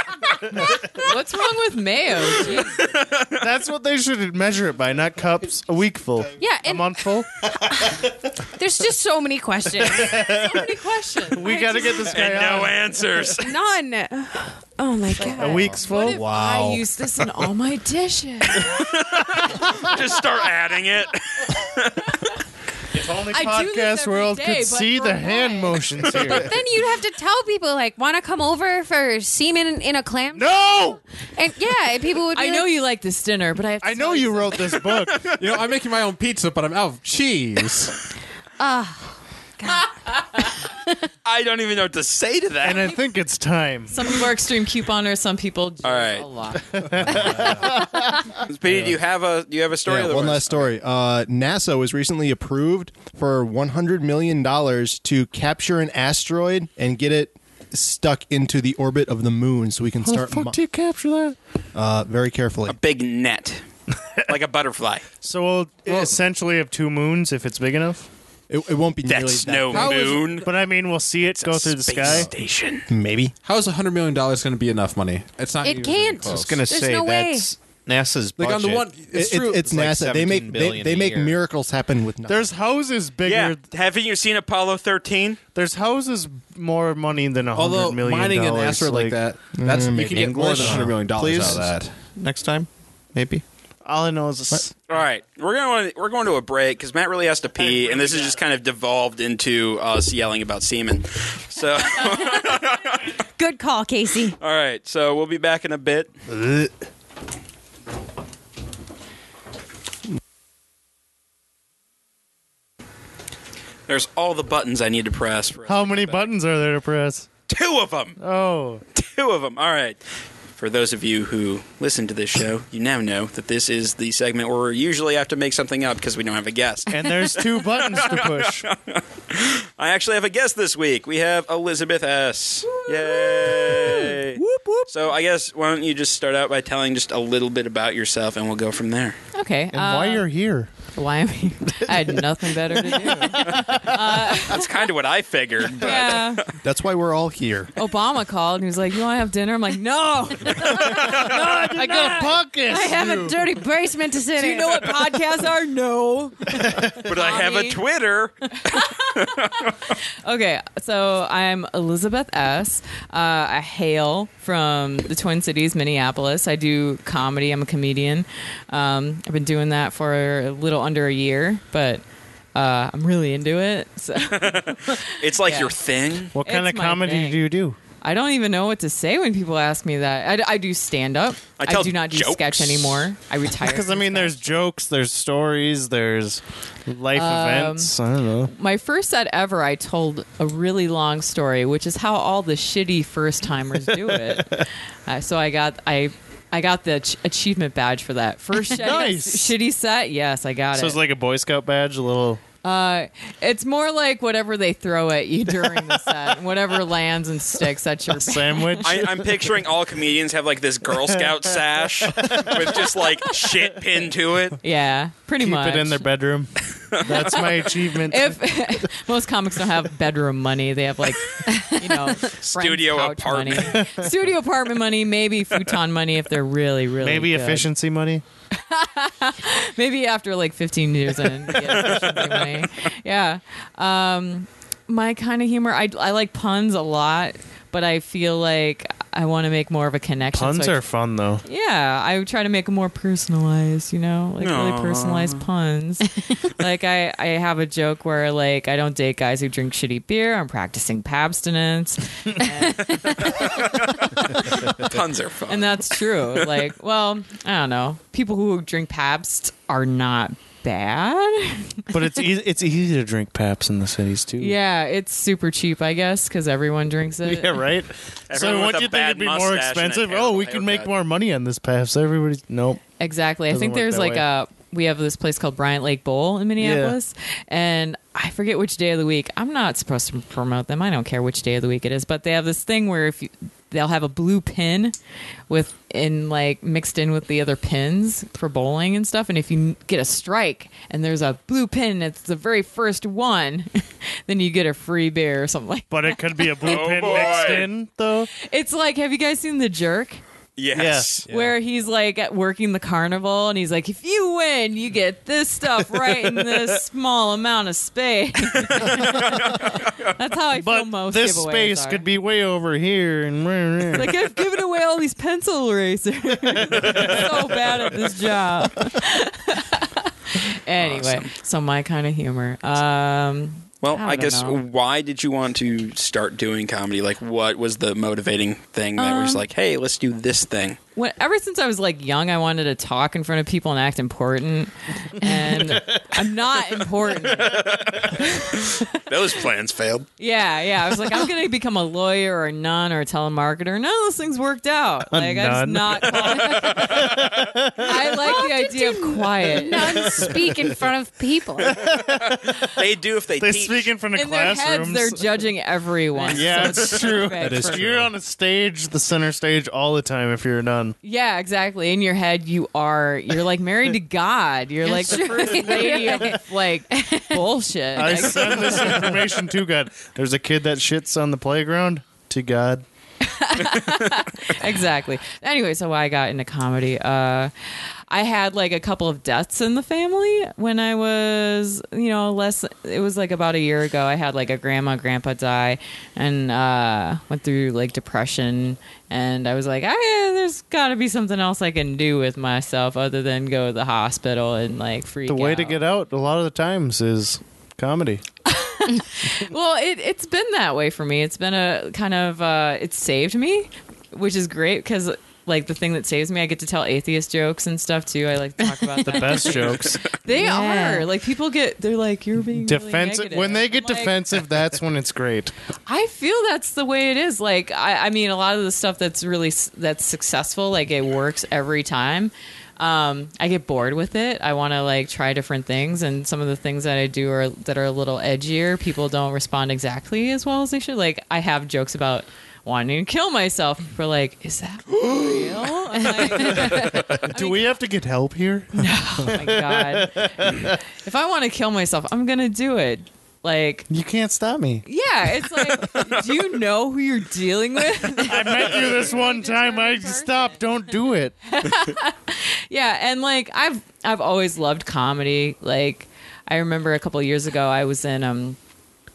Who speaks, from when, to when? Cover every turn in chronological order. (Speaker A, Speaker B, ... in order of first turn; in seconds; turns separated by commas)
Speaker A: 0.5-2.8, Speaker B: 2.6-3.4, Speaker C: 3.4-7.3, Speaker D: 6.4-10.5, Speaker A: 10.1-11.8, Speaker C: 11.3-13.0, Speaker D: 11.4-12.2, Speaker B: 12.0-13.5, Speaker D: 13.4-15.8, Speaker A: 15.1-18.9, Speaker C: 15.3-16.2, Speaker E: 15.9-16.8, Speaker B: 18.6-22.1, Speaker C: 22.9-26.5, Speaker A: 23.3-26.5, Speaker D: 26.1-32.7, Speaker C: 30.3-31.0, Speaker A: 32.3-34.9, Speaker C: 33.8-35.2, Speaker B: 35.1-35.4, Speaker F: 35.3-38.0, Speaker D: 38.6-39.9, Speaker B: 41.2-43.0, Speaker C: 42.6-43.9, Speaker A: 43.9-46.8, Speaker B: 45.8-46.2, Speaker C: 46.9-47.9, Speaker E: 47.0-47.6, Speaker D: 47.1-47.5, Speaker B: 48.4-50.7, Speaker E: 49.8-60.6, Speaker C: 60.0-61.4, Speaker E: 61.7-62.8, Speaker B: 62.7-63.6, Speaker B: 64.3-65.0, Speaker C: 65.2-68.1, Speaker E: 68.5-70.1, Speaker B: 69.1-70.5, Speaker F: 69.7-70.4, Speaker C: 70.4-72.3, Speaker B: 71.4-72.9, Speaker E: 72.9-73.3, Speaker F: 73.4-76.6, Speaker D: 75.6-77.5, Speaker G: 76.2-78.9, Speaker F: 78.3-79.7, Speaker E: 79.1-82.5, Speaker G: 79.6-81.4, Speaker C: 82.2-83.6, Speaker B: 83.2-85.4, Speaker C: 85.5-89.2, Speaker F: 87.5-92.0, Speaker E: 89.5-90.9, Speaker G: 90.0-93.4, Speaker C: 93.8-94.7, Speaker B: 94.9-103.1, Speaker D: 103.4-104.4, Speaker B: 104.4-106.1, Speaker C: 106.4-106.7, Speaker B: 113.9-116.3, Speaker C: 115.7-117.3, Speaker B: 117.5-118.2, Speaker C: 118.2-118.8, Speaker B: 118.9-120.0, Speaker B: 120.6-139.2, Speaker C: 126.9-128.7, Speaker C: 133.4-134.9, Speaker A: 139.3-140.3, Speaker C: 139.7-140.7, Speaker A: 140.9-144.9, Speaker C: 143.0-143.9, Speaker B: 144.4-146.4, Speaker A: 145.8-146.5, Speaker E: 146.6-147.7, Speaker A: 147.8-152.5, Speaker C: 150.7-153.4, Speaker B: 150.9-151.4, Speaker D: 151.8-154.9, Speaker A: 154.3-157.8, Speaker B: 157.0-159.9, Speaker A: 158.5-172.0, Speaker A: 172.5-175.8, Speaker B: 174.3-176.3, Speaker C: 176.3-177.8, Speaker A: 176.4-177.4, Speaker A: 178.0-184.5, Speaker B: 181.6-183.0, Speaker C: 183.6-188.5, Speaker A: 187.1-201.0, Speaker C: 198.7-199.5, Speaker C: 200.7-202.4, Speaker A: 202.6-208.9, Speaker C: 208.1-209.4, Speaker B: 208.8-214.6, Speaker C: 211.0-211.3, Speaker C: 212.0-212.8, Speaker A: 214.6-216.0, Speaker C: 215.4-218.4, Speaker B: 216.9-217.4, Speaker A: 217.1-227.7, Speaker B: 222.3-223.8, Speaker C: 223.7-223.9, Speaker C: 227.0-228.2, Speaker A: 228.5-240.8, Speaker C: 231.9-232.2, Speaker C: 240.3-241.4, Speaker A: 241.4-253.4, Speaker B: 244.4-245.4, Speaker B: 252.8-255.9, Speaker A: 254.4-254.7, Speaker A: 255.5-262.0, Speaker C: 261.9-264.6, Speaker A: 264.4-267.6, Speaker C: 267.2-272.8, Speaker B: 268.3-270.9, Speaker A: 273.0-284.9, Speaker C: 273.5-274.2, Speaker C: 276.6-277.0, Speaker A: 285.5-297.6, Speaker C: 295.9-298.3, Speaker B: 296.6-297.7, Speaker A: 298.3-300.2, Speaker B: 300.6-301.3, Speaker C: 300.7-301.2, Speaker A: 301.3-312.1, Speaker E: 301.3-301.5, Speaker B: 308.5-310.1, Speaker C: 310.5-314.1, Speaker A: 313.9-324.6, Speaker C: 316.7-317.1, Speaker B: 320.8-321.3, Speaker B: 323.8-330.8, Speaker A: 329.0-329.4, Speaker A: 330.9-337.6, Speaker B: 337.2-340.1, Speaker A: 338.2-338.9, Speaker A: 340.2-347.1, Speaker C: 345.1-347.9, Speaker B: 346.7-347.5, Speaker A: 347.8-350.1, Speaker D: 348.2-351.8, Speaker C: 350.0-350.3, Speaker C: 351.8-352.7, Speaker B: 351.8-353.9, Speaker C: 353.4-355.4, Speaker A: 354.1-357.9, Speaker C: 356.1-360.9, Speaker E: 357.4-358.1, Speaker A: 361.0-369.2, Speaker D: 364.8-366.4, Speaker C: 367.9-372.8, Speaker A: 373.2-377.5, Speaker B: 373.6-374.1, Speaker A: 378.1-395.8, Speaker C: 395.3-398.2, Speaker A: 398.4-414.2, Speaker D: 408.7-409.1, Speaker C: 409.0-410.1, Speaker D: 410.3-411.1, Speaker C: 412.5-415.5, Speaker A: 415.9-437.8, Speaker B: 434.9-435.6, Speaker B: 436.5-437.1, Speaker C: 436.5-440.8, Speaker A: 438.7-443.9, Speaker C: 443.9-444.9, Speaker A: 444.9-450.9, Speaker C: 448.2-451.3, Speaker A: 451.4-458.6